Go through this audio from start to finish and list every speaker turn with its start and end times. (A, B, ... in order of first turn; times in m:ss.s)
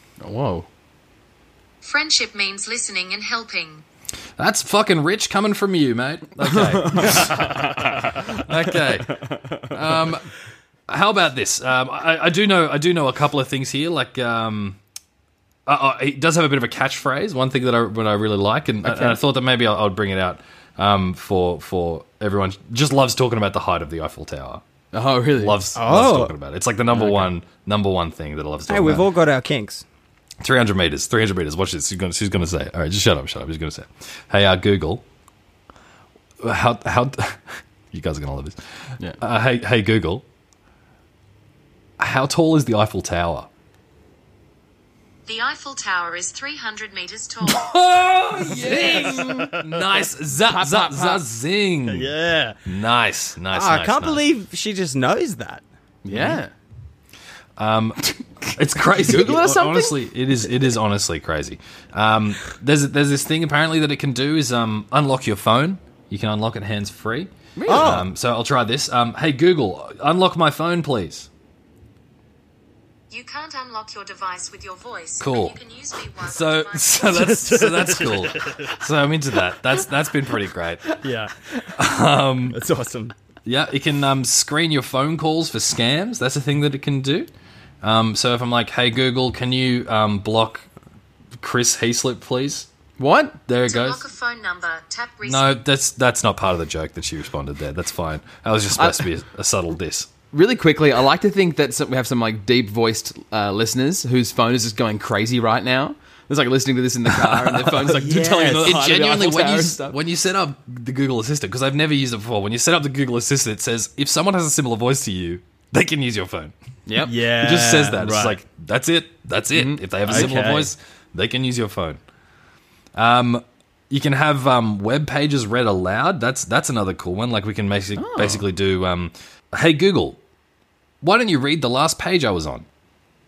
0:00.2-0:00.7 A
0:01.8-0:03.8 B
0:04.4-0:10.2 C
0:06.8-0:07.2 A
0:10.9-0:14.8 C
0:15.6-0:24.6 C
0:18.8-0:19.2 A
0:24.9-0:25.6 A
0:25.3-0:29.1 C
0:25.8-0:26.3 D
0:26.9-0:27.3 A
0:28.7-0:29.8 D
0:30.4-0:35.0 C
0:36.4-0:38.6 C
0:39.2-0:40.2 C
0:42.0-0:43.5 C
0:45.2-0:47.7 B
0:47.4-0:52.1 C
0:48.5-0:49.5 A
0:48.7-0:49.3 D
0:50.4-0:51.2 A
0:51.9-0:52.6 D
0:52.6-0:54.2 C
0:53.5-0:55.6 D
0:56.0-0:56.5 A
0:56.1-0:56.4 C
0:57.6-1:11.3 C
0:59.0-1:00.0 A
1:07.6-1:07.9 A
1:07.6-1:08.1 D
1:13.1-1:17.3 B
1:15.2-1:15.6 C
1:16.1-1:21.0 C
1:17.0-1:18.6 D
1:21.0-1:21.3 D
1:21.6-1:22.6 C
1:22.5-1:23.1 D
1:23.4-1:27.3 C
1:27.8-1:30.7 C
1:31.4-1:32.7 C
1:33.0-1:33.4 A
1:33.5-1:34.0 C
1:33.6-1:35.6 B
1:35.2-1:40.1 C
1:38.8-1:39.0 A
1:40.3-1:50.0 A
1:47.9-1:48.8 D
1:48.5-1:56.5 C
1:56.9-1:57.1 A
1:57.0-1:58.4 D
1:57.3-2:02.0 C
1:59.5-2:00.4 A
2:00.0-2:00.7 D
2:02.9-2:10.2 C
2:08.0-2:08.4 A
2:11.0-2:12.6 C